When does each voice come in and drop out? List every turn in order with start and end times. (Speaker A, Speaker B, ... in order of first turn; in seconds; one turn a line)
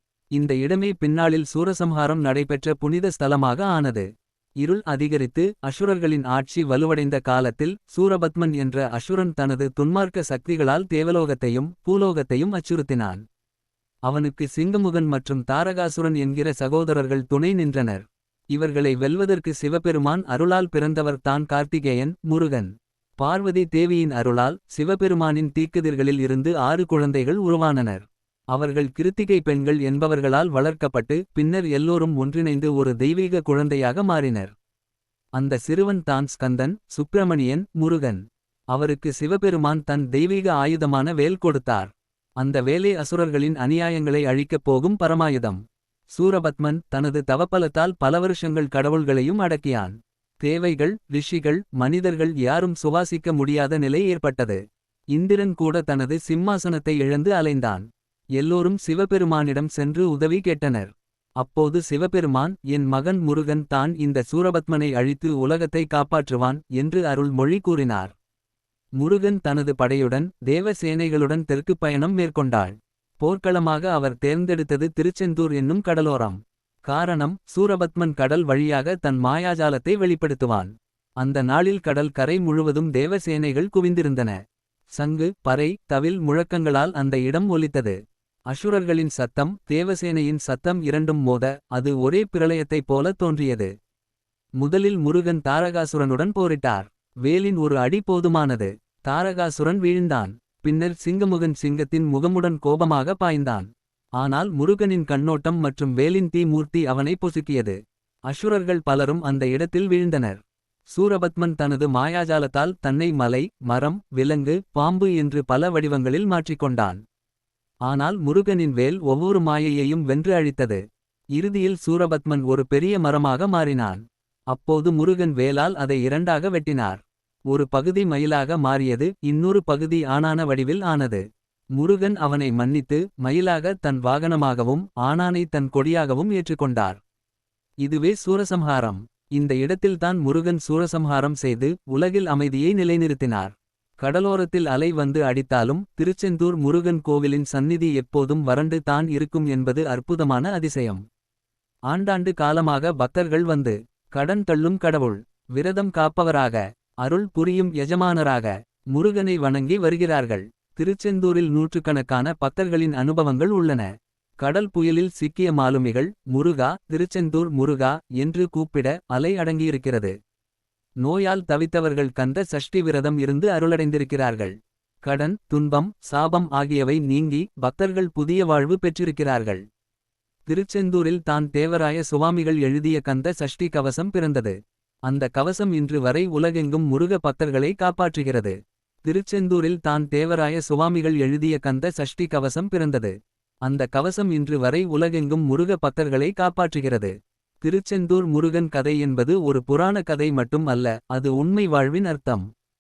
Speaker A: 0.3-4.1
Speaker A: 4.6-13.2
Speaker A: 14.1-34.5
Speaker A: 35.4-38.2
Speaker A: 38.7-45.6
Speaker A: 46.1-54.6
Speaker A: 55.1-57.8
Speaker A: 58.4-68.1
Speaker A: 69.0-84.4
Speaker A: 84.9-88.0
Speaker A: 88.5-93.7
Speaker A: 94.6-107.8
Speaker A: 108.3-117.0
Speaker A: 117.9-120.8
Speaker A: 121.3-131.2
Speaker A: 131.8-137.0
Speaker A: 137.8-151.0
Speaker A: 151.9-170.1
Speaker A: 171.0-179.6
Speaker A: 180.5-184.6
Speaker A: 185.1-193.1
Speaker A: 193.6-202.4